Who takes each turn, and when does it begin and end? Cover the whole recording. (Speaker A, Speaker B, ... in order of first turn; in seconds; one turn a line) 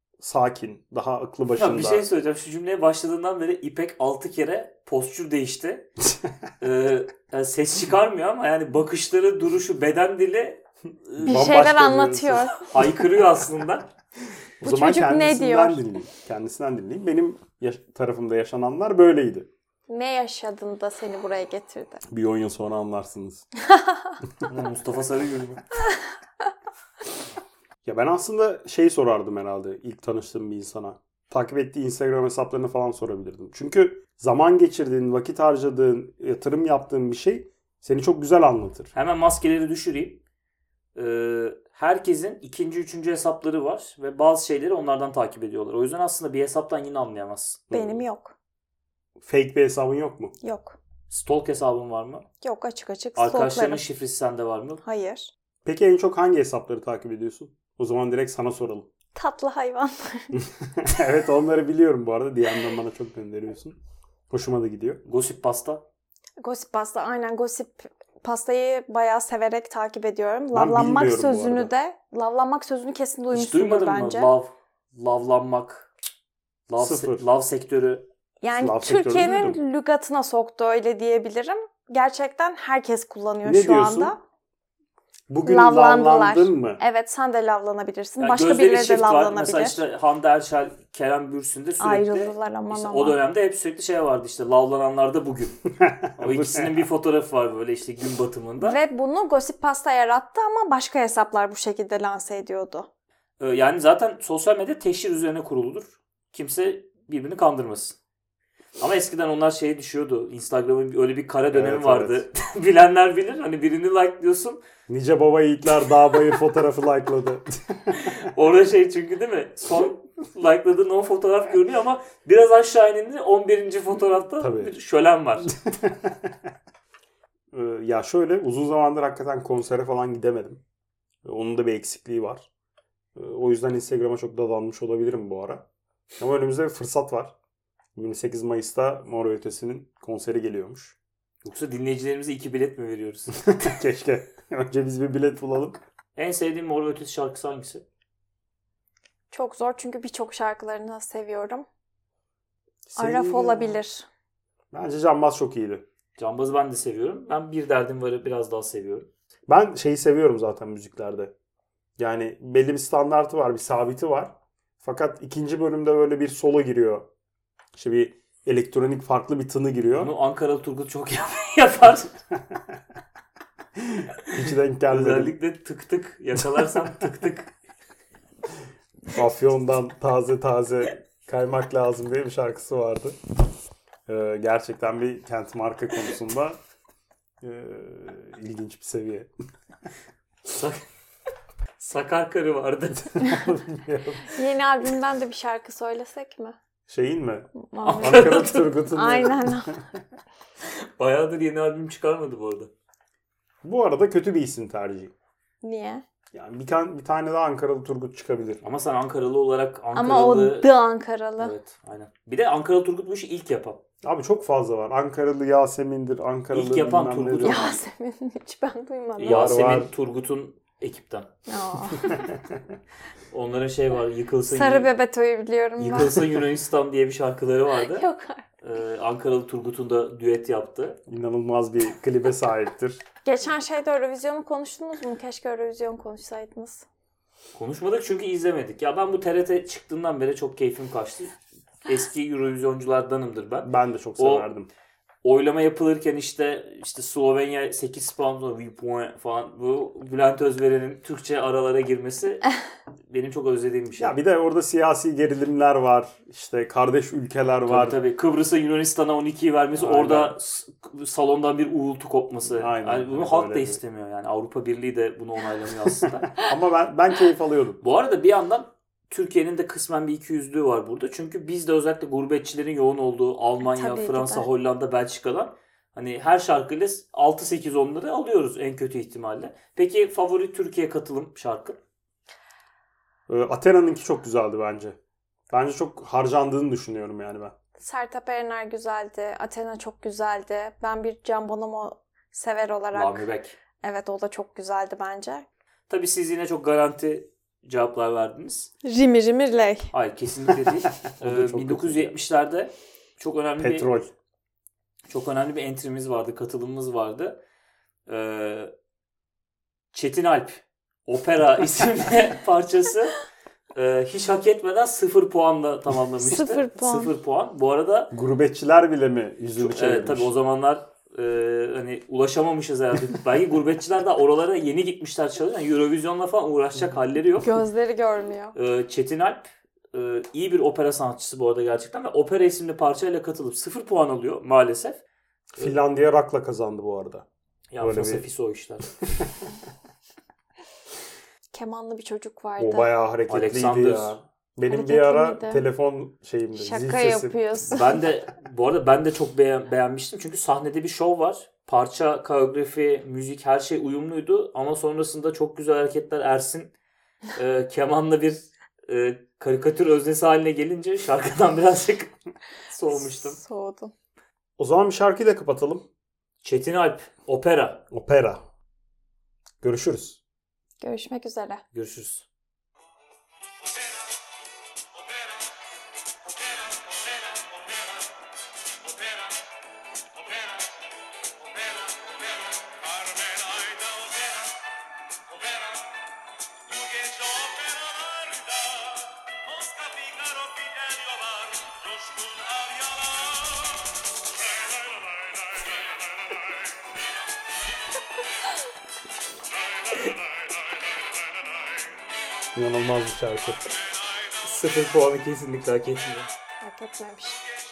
Speaker A: 0.2-2.1
Speaker B: 1.6-5.9
Speaker B: 6.6-11.4
Speaker C: 11.2-12.6
Speaker A: 11.2-12.6
Speaker B: 12.6-13.9
Speaker C: 14.6-15.8
Speaker A: 14.6-19.5
Speaker C: 19.9-22.0
Speaker A: 22.1-23.4
Speaker B: 24.5-25.6
Speaker A: 27.8-38.9
Speaker B: 38.9-40.2
Speaker B: 40.9-47.7
Speaker A: 47.7-48.0
Speaker C: 47.7-48.3
Speaker A: 49.2-50.3
Speaker C: 50.4-50.8
Speaker B: 51.1-52.2
Speaker C: 52.4-53.8
Speaker B: 53.2-54.8
Speaker C: 54.8-55.3
Speaker A: 55.6-58.9
Speaker C: 59.1-60.3
Speaker A: 60.6-63.7
Speaker A: 64.3-65.0
Speaker B: 65.0-65.8
Speaker C: 66.4-74.3
Speaker A: 70.5-71.7
Speaker B: 73.3-75.9
Speaker B: 76.7-78.0
Speaker A: 76.8-77.2
Speaker C: 78.4-84.2
Speaker A: 78.6-79.6
Speaker A: 83.4-84.1
Speaker A: 85.3-86.8
Speaker C: 85.4-89.8
Speaker B: 88.2-95.6
Speaker C: 91.8-93.2
Speaker A: 95.8-96.7
Speaker B: 96.2-98.8
Speaker C: 98.6-102.9
Speaker B: 103.4-108.0
Speaker B: 108.8-114.6
Speaker A: 111.5-112.2
Speaker A: 114.9-118.0
Speaker B: 117.9-125.5
Speaker A: 124.4-124.7
Speaker A: 125.7-126.3
Speaker A: 127.5-130.6
Speaker A: 131.2-132.5
Speaker A: 133.2-135.7
Speaker A: 136.2-137.3
Speaker A: 137.9-141.0
Speaker B: 141.4-143.3
Speaker A: 143.3-145.8
Speaker B: 146.2-147.8
Speaker C: 149.3-151.6
Speaker A: 152.9-153.8
Speaker C: 153.0-154.1
Speaker A: 154.7-155.8
Speaker B: 156.2-159.1
Speaker A: 159.5-161.3
Speaker A: 162.0-167.1
Speaker A: 167.8-170.1
Speaker B: 170.0-172.2
Speaker A: 173.8-175.4
Speaker B: 174.9-177.5
Speaker A: 179.1-183.2
Speaker A: 184.1-186.6
Speaker A: 187.4-189.3
Speaker B: 190.5-190.8
Speaker B: 191.8-193.2
Speaker A: 193.1-194.3
Speaker C: 194.2-196.6
Speaker A: 196.9-199.7
Speaker C: 197.6-199.8
Speaker B: 197.8-198.8
Speaker B: 200.7-202.7
Speaker A: 203.6-205.1
Speaker C: 205.6-206.0
Speaker A: 206.3-208.6
Speaker B: 208.6-210.7
Speaker C: 209.9-211.5
Speaker B: 211.4-213.8
Speaker A: 214.0-217.8
Speaker B: 216.5-217.5
Speaker C: 217.4-219.5
Speaker B: 219.2-221.3
Speaker A: 219.2-219.9
Speaker C: 221.5-222.2
Speaker B: 223.3-224.9
Speaker C: 224.5-226.4
Speaker B: 225.8-228.0
Speaker C: 227.7-228.4
Speaker B: 228.6-231.0
Speaker A: 231.1-233.0
Speaker C: 233.2-236.8
Speaker B: 237.5-244.5
Speaker A: 243.6-244.7
Speaker B: 245.2-252.5
Speaker B: 253.1-254.2
Speaker A: 254.0-258.0
Speaker B: 257.6-266.3
Speaker A: 259.7-260.4
Speaker A: 262.4-263.8
Speaker A: 266.1-267.8
Speaker B: 267.8-281.8
Speaker C: 273.6-274.5
Speaker A: 283.3-285.0
Speaker A: 285.5-287.5
Speaker C: 287.8-295.4
Speaker B: 292.9-293.6
Speaker B: 295.9-298.7
Speaker C: 298.8-299.9
Speaker B: 299.9-303.9
Speaker A: 301.2-302.1
Speaker A: 303.6-304.1
Speaker B: 305.1-307.4
Speaker B: 308.1-308.7
Speaker B: 309.9-313.1
Speaker B: 313.7-318.1
Speaker C: 316.2-317.1
Speaker A: 318.1-320.3
Speaker B: 319.6-327.6
Speaker C: 327.4-328.5
Speaker B: 328.5-335.0
Speaker A: 335.5-337.2
Speaker B: 337.7-338.9
Speaker A: 337.8-338.3
Speaker A: 339.0-339.4
Speaker C: 341.5-342.9
Speaker A: 342.6-347.4
Speaker B: 343.3-344.2
Speaker C: 344.7-345.6
Speaker C: 346.5-348.1
Speaker B: 347.7-356.7
Speaker B: 357.3-362.1
Speaker B: 362.7-363.4
Speaker C: 362.9-363.9
Speaker A: 364.6-365.9
Speaker B: 366.4-367.8
Speaker A: 367.9-368.4
Speaker A: 369.6-370.2
Speaker C: 370.8-371.6
Speaker B: 371.7-372.2
Speaker A: 402.5-403.8
Speaker B: 404.4-406.3
Speaker C: 406.6-407.4